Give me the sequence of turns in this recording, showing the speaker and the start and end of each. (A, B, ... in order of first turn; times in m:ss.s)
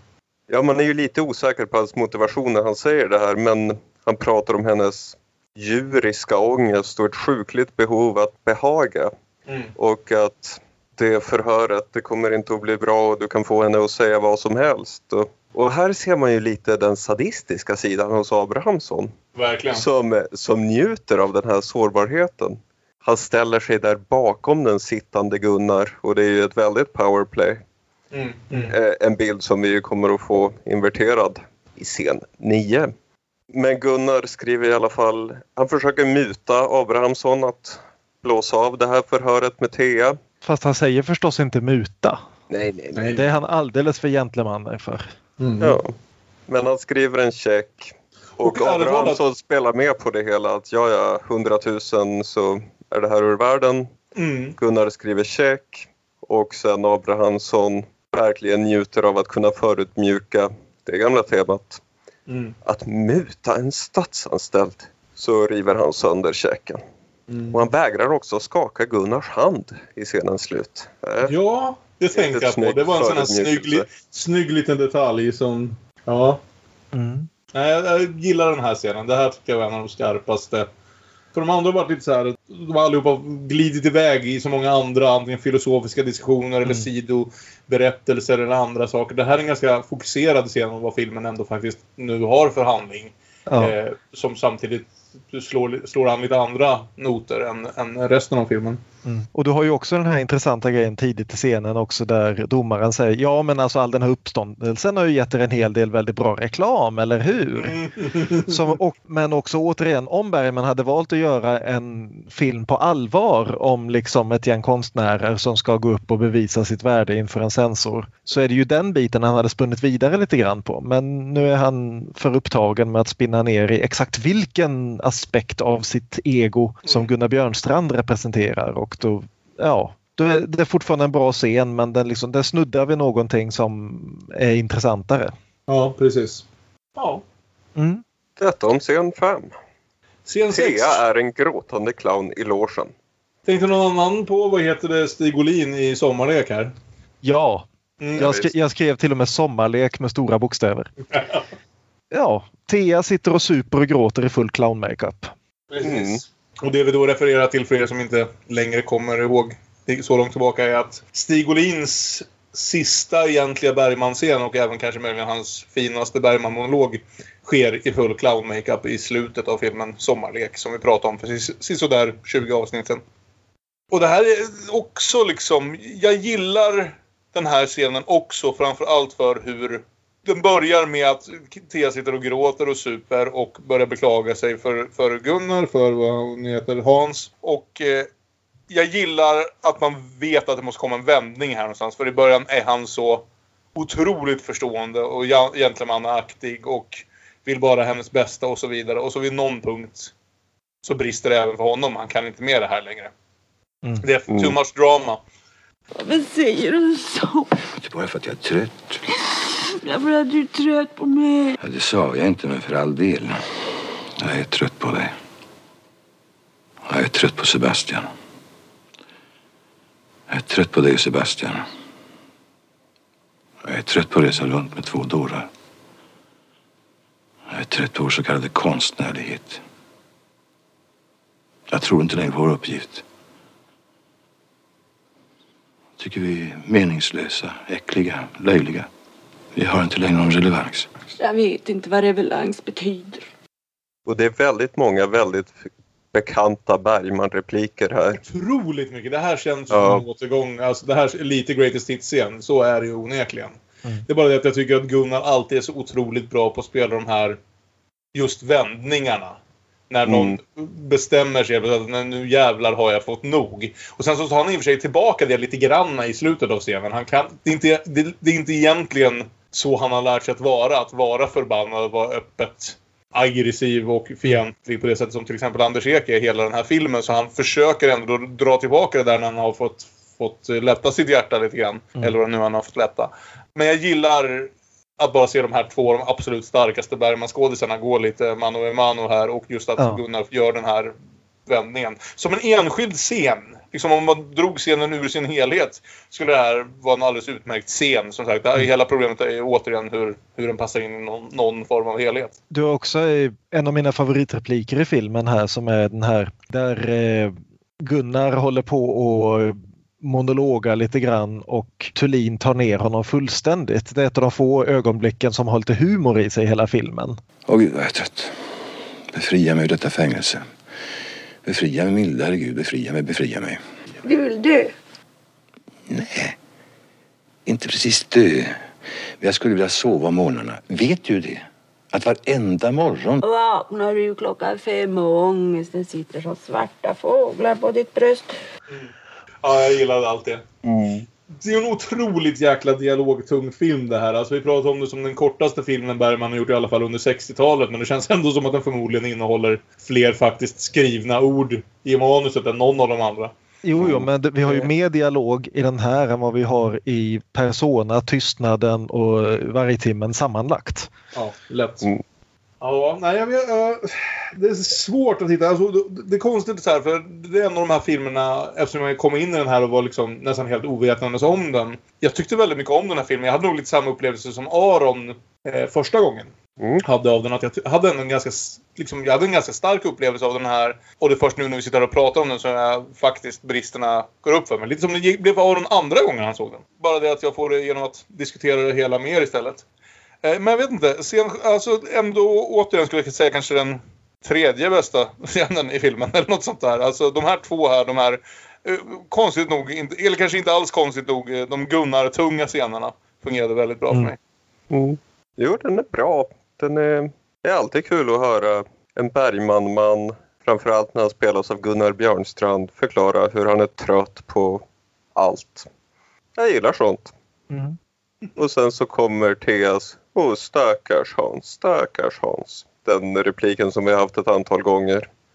0:00.5-0:09.1 A
0:09.5-0:09.7 B
0:09.8-0:19.1 A
0:19.3-0:19.8 B
0:19.7-0:27.6 A
0:28.1-0:28.7 B
0:28.6-0:32.9 A
0:33.5-0:40.2 A
0:40.4-0:42.2 C
0:42.5-0:43.2 A
0:42.9-0:43.2 B
0:43.1-0:45.0 C
0:45.4-0:45.8 B
0:45.6-0:45.9 A
0:46.5-0:53.9 A
0:48.4-0:49.2 B
0:54.1-0:54.6 B
0:54.6-1:01.8 A
1:02.3-1:02.6 B
1:02.6-1:06.8 A
1:07.3-1:07.6 B
1:07.5-1:11.3 A
1:11.2-1:16.4 B
1:12.1-1:13.8 A
1:16.9-1:17.3 C
1:17.5-1:20.7 B
1:21.3-1:38.8 B
1:33.5-1:33.7 C
1:39.0-2:15.3 C
1:47.6-1:48.6 B
2:06.8-2:07.1 B
2:15.7-2:16.4 B
2:17.0-2:17.2 B
2:17.8-2:18.0 C
2:18.4-2:19.5 A
2:20.2-2:21.0 B
2:20.5-2:22.9 A
2:23.4-2:26.7 B
2:27.2-2:30.9 C
2:28.0-2:28.3 B
2:28.2-2:28.5 A
2:31.1-2:31.4 B
2:32.1-2:35.3 C
2:35.7-2:53.0 B
2:35.8-2:36.2 A
2:53.9-3:08.1 B
3:08.7-3:20.1 B
3:20.8-3:23.1 B
3:24.0-3:25.2 B
3:24.3-3:24.6 A
3:26.0-3:27.5 D
3:27.8-3:29.0 E
3:29.8-3:31.5 D
3:31.6-3:33.4 E
3:34.2-3:35.1 E
3:36.9-3:38.1 E
3:40.3-3:41.6 E
3:43.6-3:45.5 E
3:47.5-3:49.6 E
3:51.7-3:53.0 E
3:56.0-3:58.9 E
3:59.5-4:00.9 E
4:01.2-4:03.2 D
4:04.0-4:05.5 A
4:06.1-4:08.2 A
4:08.2-4:17.4 B
4:09.7-4:10.0 A
4:18.1-4:19.4 B
4:19.9-4:50.9 B
4:20.0-4:20.4 A
4:51.4-5:02.3 B
5:02.5-5:17.2 C
5:17.5-5:18.3 E
5:19.1-5:20.5 E
5:21.4-5:23.6 E
5:24.0-5:24.7 D
5:25.9-5:26.3 E
5:27.4-5:28.6 E
5:29.2-5:33.2 E
5:33.2-5:38.3 D
5:39.4-5:40.4 B
5:40.6-5:41.0 A
5:41.4-5:53.3 B
5:53.6-6:00.9 C
6:01.1-6:01.9 B
6:02.6-6:16.3 B
6:16.8-6:29.6 B
6:30.2-6:44.2 B
6:44.7-6:54.6 A
6:55.1-6:55.7 A
6:56.4-6:57.1 A
6:57.5-6:57.8 C
6:58.4-7:05.1 A